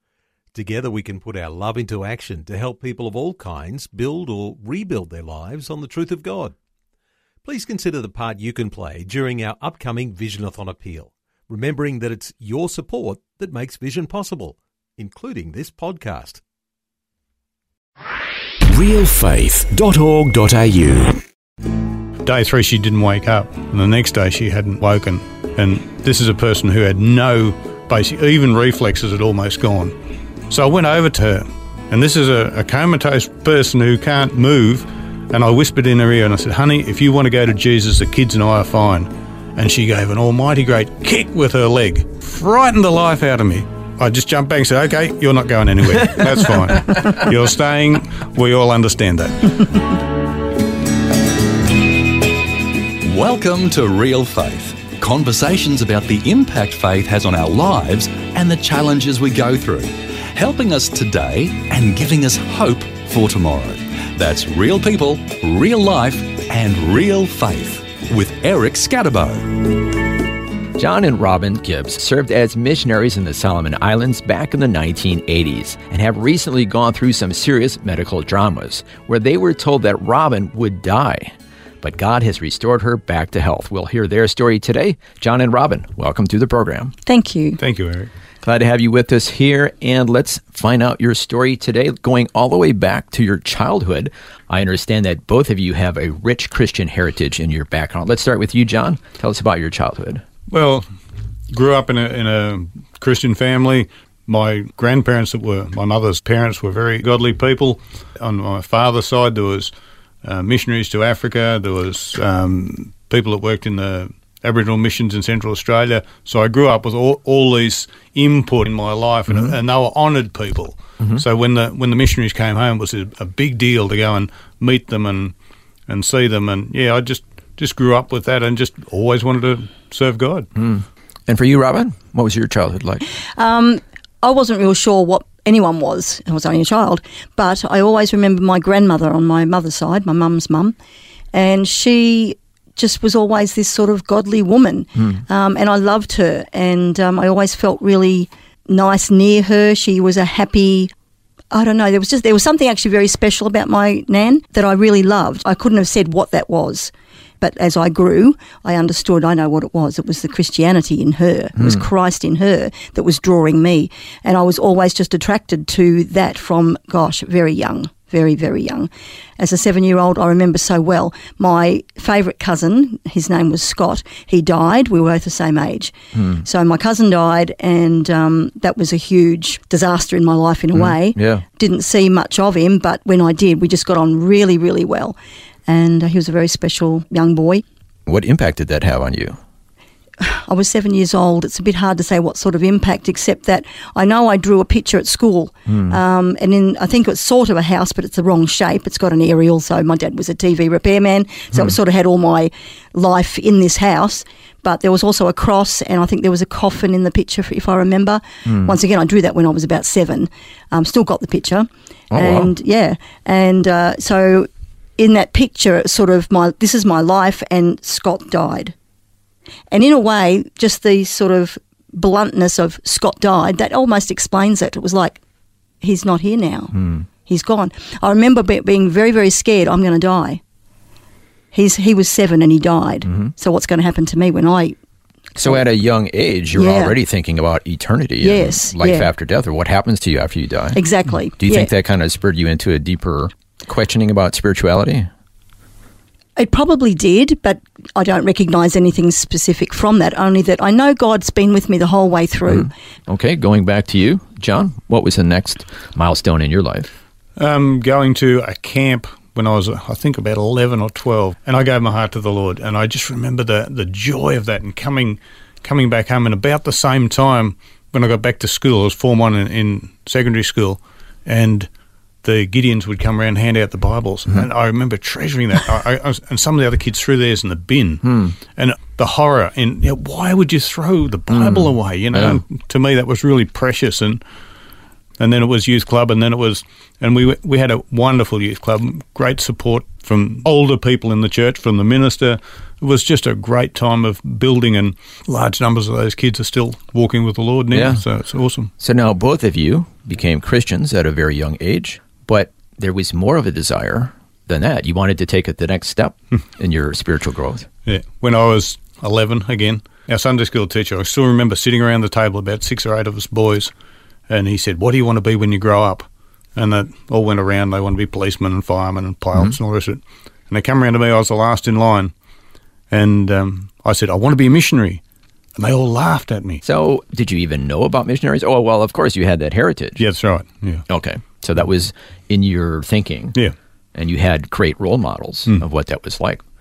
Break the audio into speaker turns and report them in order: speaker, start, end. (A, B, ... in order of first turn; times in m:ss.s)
0:00.5-0:06.6 A
0:07.4-0:16.4 A
0:18.7-0:21.2 B
0:22.2-0:30.0 C
0:30.5-0:49.8 C
0:46.0-0:47.1 D
0:53.0-1:09.7 E
1:10.8-1:26.9 D
1:27.1-1:27.6 F
1:27.6-1:28.1 C
1:28.4-1:40.2 D
1:40.5-1:40.8 C
1:41.5-1:49.7 C
1:50.2-2:05.3 C
1:59.3-1:59.5 D
2:05.9-2:10.5 C
2:10.6-2:13.0 D
2:13.4-2:20.8 F
2:21.3-2:30.9 F
2:31.5-3:05.2 F
2:41.6-2:41.9 D
2:56.1-2:56.4 D
3:00.7-3:01.4 D
3:05.7-3:07.6 F
3:08.1-3:09.4 D
3:10.2-3:38.8 F
3:15.7-3:16.0 D
3:28.5-3:28.7 D
3:32.1-3:32.5 D
3:39.7-3:45.2 F
3:45.8-3:46.7 F
3:46.8-3:47.0 D
3:47.2-3:50.4 F
3:51.5-3:54.8 F
3:53.1-3:53.3 D
3:55.4-3:55.6 F
3:55.4-4:00.8 D
3:56.5-3:57.0 F
3:58.2-3:59.1 F
4:00.8-4:01.7 F
4:01.4-4:05.1 D
4:06.4-4:12.7 F
4:12.5-4:16.9 D
4:17.4-4:31.7 C
4:32.2-4:38.0 C
4:38.0-4:38.4 D
4:38.6-4:44.2 C
4:41.3-4:42.4 D
4:45.2-4:58.7 C
4:57.7-4:58.0 D
4:58.8-5:07.7 D
5:07.9-5:13.7 C
5:14.3-5:22.1 C
5:22.9-5:25.0 C
5:25.6-5:26.6 C
5:26.6-5:30.0 D
5:30.0-5:30.9 C
5:30.9-5:33.4 D
5:34.0-5:36.4 D